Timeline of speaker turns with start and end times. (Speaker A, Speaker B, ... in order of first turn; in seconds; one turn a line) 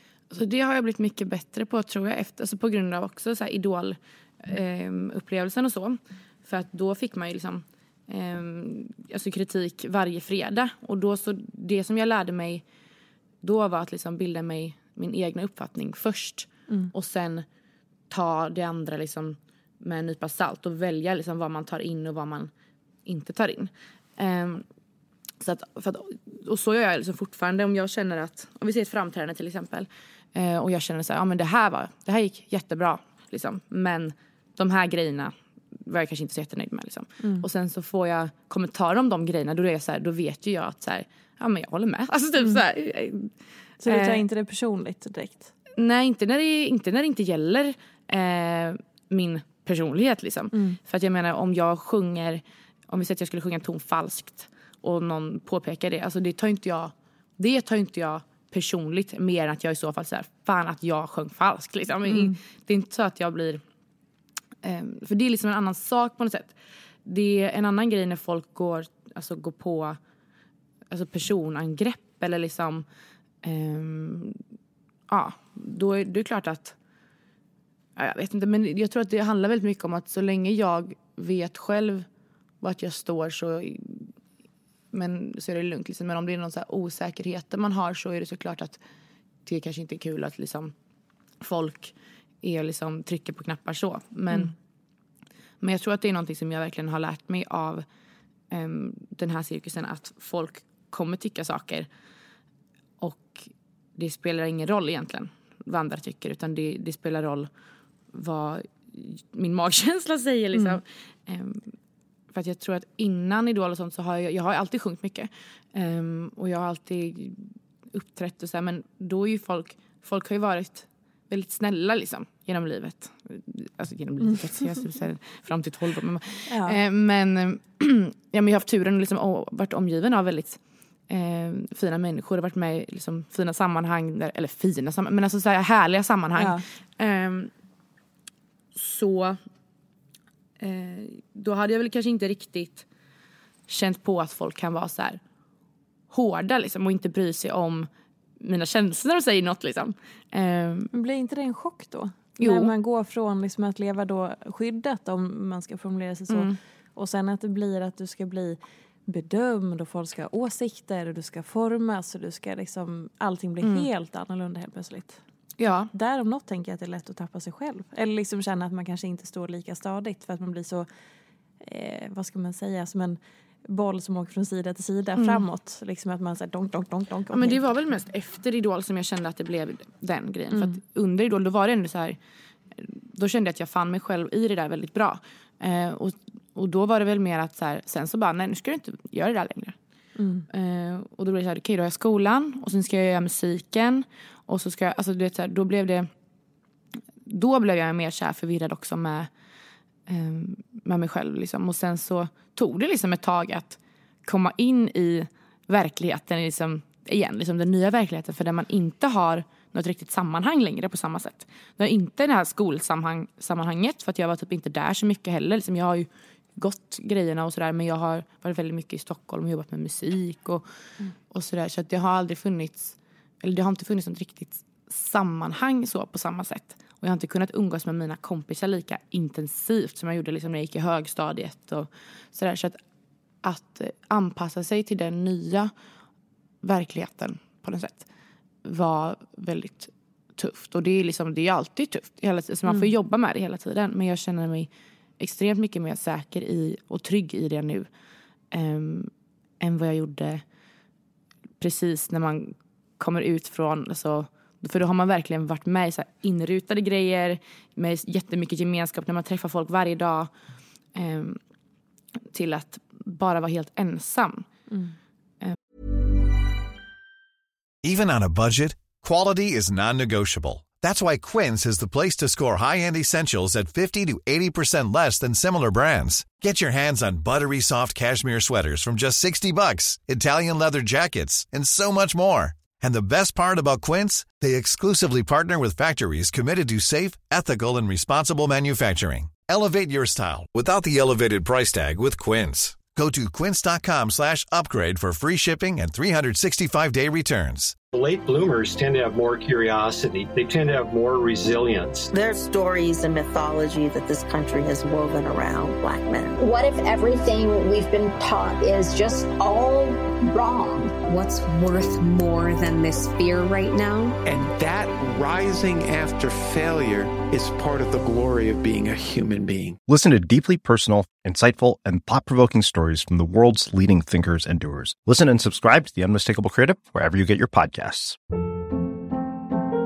Speaker A: 0.3-12.6
Speaker A: 13.4-17.4
Speaker A: 18.1-22.5
Speaker A: 23.1-24.6
Speaker A: 25.4-35.3
Speaker A: 35.9-43.3
Speaker B: 37.2-37.5
Speaker B: 43.8-45.5
Speaker A: 43.8-44.2
Speaker A: 45.8-63.6
Speaker B: 50.5-50.8
Speaker B: 62.1-62.4
Speaker A: 64.6-66.5
Speaker A: 67.1-70.0
Speaker A: 70.9-72.8
Speaker A: 73.4-74.4
Speaker A: 75.1-76.8
Speaker A: 78.0-82.1
Speaker A: 82.6-84.1
Speaker A: 84.9-88.8
Speaker A: 89.5-90.7
Speaker A: 91.4-94.5
Speaker A: 95.6-97.8
Speaker A: 98.5-101.9
Speaker A: 103.0-107.5
Speaker A: 108.1-111.7
Speaker B: 110.5-110.8
Speaker A: 112.3-137.5
Speaker B: 126.5-126.8
Speaker B: 136.4-136.6
Speaker A: 138.8-139.4
Speaker A: 140.6-142.8
Speaker A: 143.7-145.2
Speaker A: 146.1-150.9
Speaker B: 150.9-165.2
Speaker A: 152.4-152.7
Speaker A: 156.3-156.6
Speaker A: 163.6-163.9
Speaker A: 165.6-165.9
Speaker B: 165.9-170.9
Speaker B: 171.6-177.6
Speaker A: 175.2-175.4
Speaker A: 177.3-182.2
Speaker B: 180.5-180.8
Speaker A: 182.8-189.8
Speaker B: 190.2-190.5
Speaker A: 190.5-196.1
Speaker A: 197.3-199.3
Speaker A: 200.1-220.6
Speaker A: 221.3-232.8
Speaker A: 233.4-235.7
Speaker A: 236.6-238.1
Speaker A: 238.7-247.9
Speaker A: 248.5-250.4
Speaker A: 251.6-260.3
Speaker A: 260.9-261.4
Speaker A: 262.3-264.5
Speaker B: 264.7-264.9
Speaker C: 267.8-297.8
Speaker D: 297.9-302.1
Speaker E: 302.1-306.4
Speaker F: 306.4-311.0
Speaker G: 311.0-314.2
Speaker H: 314.2-319.8
Speaker I: 319.9-328.2